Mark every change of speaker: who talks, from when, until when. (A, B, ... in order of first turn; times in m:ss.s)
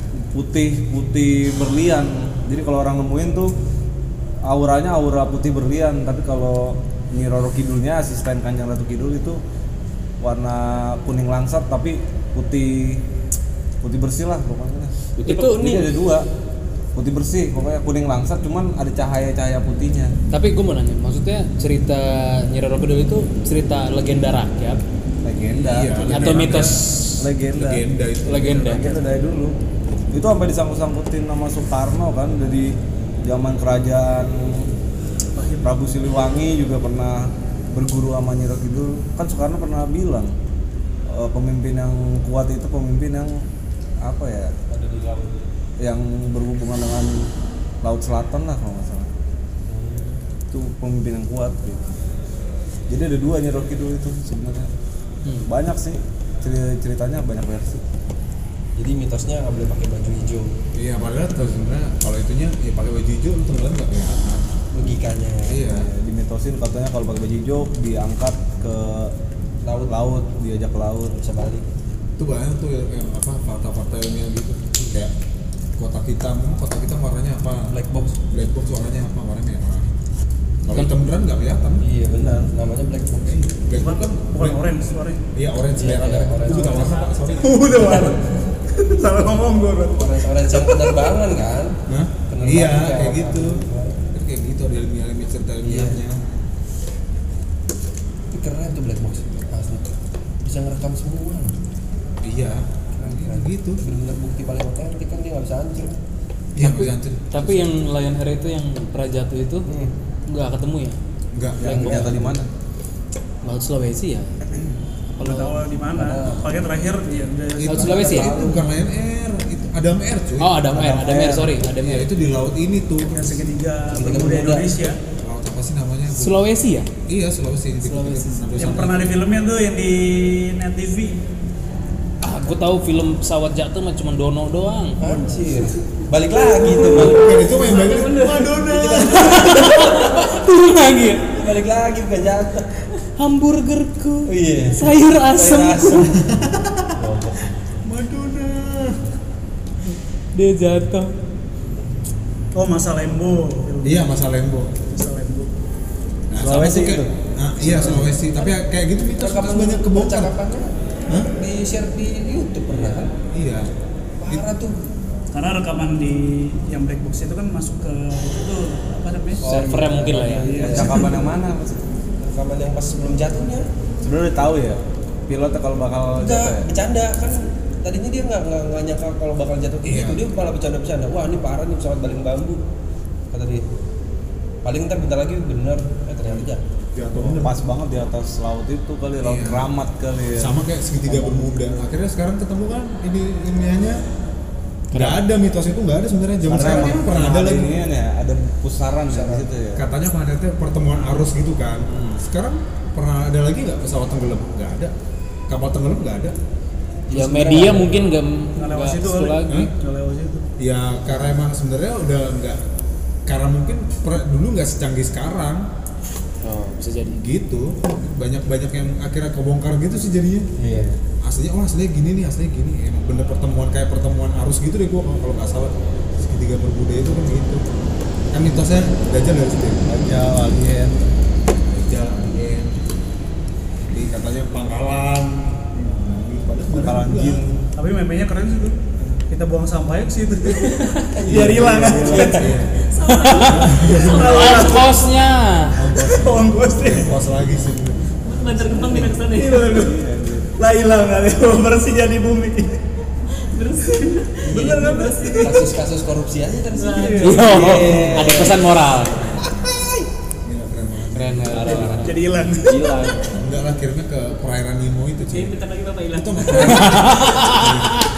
0:00.3-0:03.5 A
0:04.4-0:09.4 A
0:10.2-0:13.0 A
0:13.8-0:16.3 A
0:15.2-0:15.9 B
0:17.0-0:20.1 A
0:20.3-0:24.8 C
0:25.2-0:26.7 A
0:25.6-0:26.8 D
0:26.0-0:27.2 C
0:27.2-0:27.8 A
0:27.5-0:28.8 D
0:28.3-0:28.9 C
0:28.4-0:29.5 A
0:30.1-0:34.7 A
0:35.3-0:35.8 E
0:35.6-0:40.3 A
0:41.1-0:43.4 A
0:44.0-0:44.5 A
0:44.7-0:45.4 B
0:45.8-0:47.3 A
0:47.8-0:49.1 A
0:49.7-0:50.2 B
0:50.5-0:51.8 A
0:52.9-0:54.7 A
0:55.2-0:55.5 C
0:55.5-0:57.8 A
0:58.8-1:00.5 B
1:00.7-1:04.5 D
1:04.7-1:05.8 B
1:05.5-1:05.8 D
1:05.8-1:09.1 A
1:09.6-1:10.1 B
1:09.8-1:11.2 A
1:11.1-1:11.6 B
1:12.2-1:15.1 D
1:15.8-1:17.7 D
1:17.7-1:18.2 B
1:18.3-1:19.9 D
1:20.6-1:21.8 D
1:21.8-1:23.6 B
1:23.7-1:24.6 D
1:23.7-1:25.2 E
1:25.3-1:28.0 D
1:25.7-1:26.9 B
1:26.5-1:27.8 F
1:27.4-1:30.2 E
1:30.0-1:34.0 B
1:31.9-1:33.6 D
1:34.1-1:36.2 D
1:35.6-1:36.0 B
1:38.3-1:41.5 B
1:42.2-1:43.8 D
1:43.0-1:45.9 B
1:46.5-1:47.3 D
1:47.3-1:49.7 C
1:49.7-1:49.9 B
1:50.3-1:51.0 C
1:51.3-1:52.1 D
1:51.6-1:52.5 A
1:51.6-1:52.1 C
1:51.7-1:52.2 B
1:53.4-1:54.4 C
1:55.1-1:55.6 C
1:55.2-1:58.4 E
1:55.9-1:56.5 B
1:57.6-2:00.7 D
1:57.7-1:58.3 C
1:57.7-1:58.6 A
2:00.4-2:02.1 C
2:00.7-2:01.6 A
2:01.8-2:03.4 D
2:03.1-2:05.0 E
2:03.9-2:04.8 B
2:05.2-2:06.4 D
2:06.1-2:06.9 C
2:07.1-2:09.2 D
2:07.8-2:08.5 C
2:08.6-2:11.2 E
2:12.2-2:15.0 C
2:15.0-2:17.3 B
2:16.8-2:19.2 D
2:17.2-2:19.9 F
2:18.6-2:20.2 B
2:19.2-2:21.2 C
2:21.3-2:22.7 B
2:23.2-2:26.1 C
2:24.3-2:26.2 B
2:26.3-2:26.8 D
2:27.0-2:27.8 B
2:27.8-2:29.0 D
2:30.3-2:31.1 C
2:32.5-2:34.1 E
2:33.8-2:34.7 D
2:34.9-2:35.5 E
2:36.3-2:40.3 D
2:36.4-2:37.1 A
2:37.6-2:38.6 B
2:39.2-2:40.7 B
2:41.4-2:43.1 B
2:43.3-2:43.7 D
2:44.2-2:44.8 B
2:45.3-2:49.4 E
2:49.4-2:50.8 C
2:49.4-2:51.2 B
2:50.4-2:51.2 E
2:50.7-2:51.8 A
2:52.2-2:53.6 B
2:54.0-2:56.7 A
2:56.2-3:02.6 B
2:59.8-3:00.3 D
3:03.3-3:03.6 B
3:04.6-3:06.6 B
3:06.9-3:07.5 D
3:07.1-3:10.5 A
3:09.2-3:09.7 D
3:10.4-3:14.0 D
3:11.1-3:11.7 B
3:14.9-3:15.2 C
3:14.9-3:17.7 D
3:16.4-3:19.8 A
3:16.5-3:17.0 B
3:19.1-3:19.4 B
3:19.8-3:24.9 D
3:25.5-3:26.4 D
3:27.1-3:27.9 B
3:27.1-3:29.6 C
3:28.6-3:30.4 E
3:30.6-3:32.6 D
3:33.2-3:35.7 D
3:36.4-3:37.2 C
3:37.2-3:40.5 D
3:40.6-3:41.0 B
3:41.2-3:47.6 D
3:48.3-3:49.9 D
3:49.8-3:51.1 A
3:51.7-3:52.8 D
3:53.9-3:57.4 D
3:56.7-3:57.5 A
3:57.8-3:58.8 E
3:59.3-4:02.5 E
4:01.2-4:02.5 B
4:01.2-4:02.4 A
4:01.2-4:02.7 D
4:02.7-4:04.9 F
4:03.1-4:03.6 C
4:03.4-4:04.4 D
4:03.9-4:04.9 E
4:04.2-4:05.8 C
4:05.8-4:08.0 D
4:05.8-4:06.4 A
4:06.0-4:07.1 E
4:08.2-4:09.8 F
4:08.9-4:09.1 B
4:09.2-4:10.0 E
4:09.7-4:10.5 A
4:10.6-4:12.8 E
4:13.4-4:15.6 F
4:14.0-4:15.6 E
4:14.5-4:18.6 B
4:16.7-4:17.6 F
4:16.9-4:17.8 E
4:17.2-4:19.2 C
4:17.5-4:18.2 A
4:18.5-4:19.7 D
4:20.4-4:22.0 D
4:21.1-4:22.2 C
4:21.5-4:23.4 B
4:21.8-4:23.1 E
4:23.3-4:25.6 D
4:25.2-4:27.0 F
4:26.1-4:28.0 D
4:26.6-4:27.8 C